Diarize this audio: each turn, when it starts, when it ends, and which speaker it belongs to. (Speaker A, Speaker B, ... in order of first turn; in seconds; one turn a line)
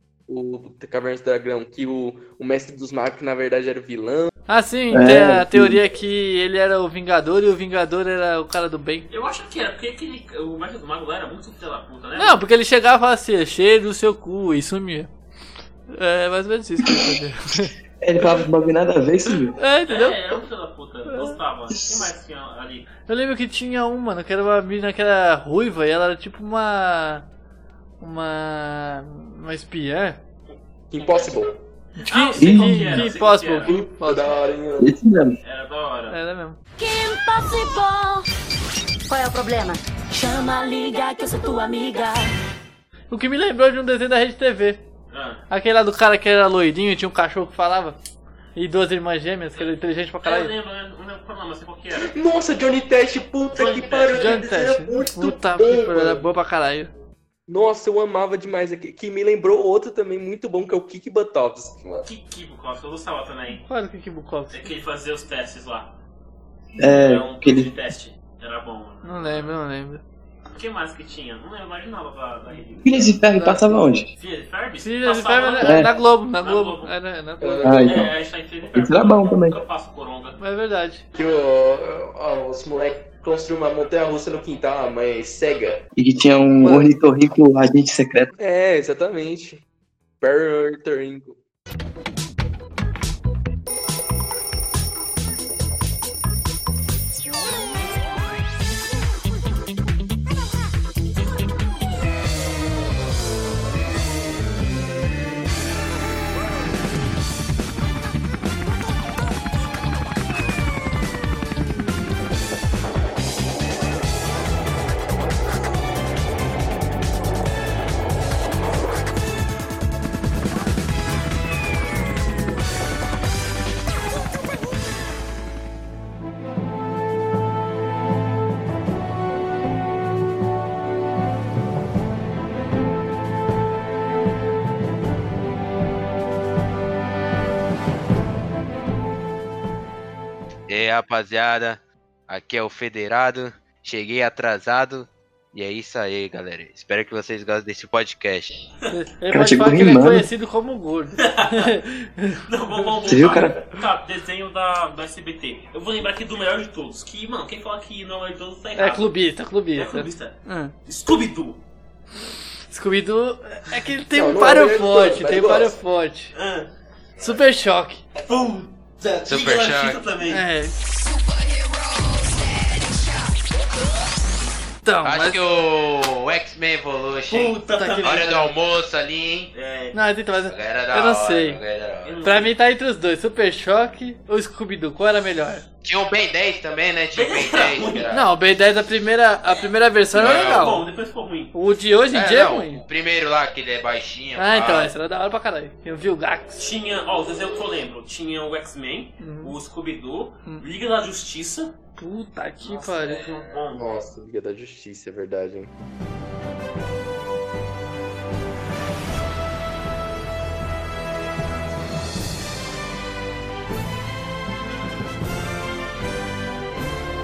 Speaker A: 0.3-4.3
Speaker B: 4.5-9.1
Speaker C: 4.9-5.8
Speaker D: 9.1-12.4
Speaker B: 12.2-15.1
Speaker B: 15.9-17.7
Speaker C: 16.8-17.1
Speaker C: 18.0-19.6
Speaker B: 19.6-20.4
Speaker D: 19.9-22.9
Speaker B: 21.1-21.4
Speaker B: 23.1-27.3
Speaker B: 28.0-30.2
Speaker A: 30.9-31.5
Speaker B: 32.0-34.3
Speaker D: 32.0-33.8
Speaker C: 32.4-33.1
Speaker A: 33.7-34.9
Speaker C: 34.8-35.4
Speaker D: 35.4-36.2
Speaker B: 36.1-36.6
Speaker E: 36.8-38.2
Speaker E: 39.1-42.3
Speaker B: 43.1-44.8
Speaker D: 45.1-45.4
Speaker B: 45.5-48.0
Speaker B: 48.5-50.5
Speaker D: 50.2-52.2
Speaker A: 52.0-56.2
Speaker D: 53.5-54.5
Speaker B: 54.1-56.9
Speaker A: 57.5-62.0
Speaker D: 62.1-63.6
Speaker B: 63.6-64.7
Speaker D: 64.5-65.9
Speaker C: 66.8-67.7
Speaker D: 66.8-69.5
Speaker B: 69.0-70.0
Speaker D: 70.5-73.2
Speaker C: 72.8-74.1
Speaker B: 73.3-73.7
Speaker D: 74.2-76.9
Speaker B: 74.8-77.7
Speaker C: 75.6-75.9
Speaker A: 77.4-78.1
Speaker C: 77.6-78.2
Speaker D: 77.8-80.4
Speaker C: 78.7-79.6
Speaker B: 80.4-81.0
Speaker A: 81.2-85.8
Speaker C: 86.0-88.3
Speaker A: 86.6-86.9
Speaker A: 88.4-89.6
Speaker A: 90.2-91.4
Speaker F: 140.7-148.6
Speaker B: 148.9-152.4
Speaker C: 149.3-150.3
Speaker D: 151.2-151.7
Speaker D: 152.5-159.1
Speaker C: 153.1-153.6
Speaker B: 158.8-160.7
Speaker D: 159.7-161.6
Speaker B: 162.7-166.3
Speaker A: 164.1-165.7
Speaker D: 166.3-166.7
Speaker B: 167.2-168.0
Speaker D: 168.2-170.5
Speaker F: 169.2-170.0
Speaker B: 170.3-170.8
Speaker B: 174.8-175.4
Speaker F: 175.0-179.5
Speaker D: 177.3-178.5
Speaker B: 177.8-178.5
Speaker D: 179.5-180.0
Speaker B: 179.9-181.6
Speaker F: 180.4-182.3
Speaker D: 182.0-182.5
Speaker B: 182.2-185.7
Speaker F: 185.8-188.3
Speaker D: 187.1-188.1
Speaker B: 188.1-190.8
Speaker F: 190.1-190.8
Speaker D: 190.2-191.5
Speaker B: 191.5-192.8
Speaker F: 192.1-194.9
Speaker B: 194.4-196.6
Speaker D: 196.6-201.7
Speaker B: 199.2-199.5
Speaker B: 202.0-203.3
Speaker D: 202.6-203.8
Speaker A: 203.7-205.7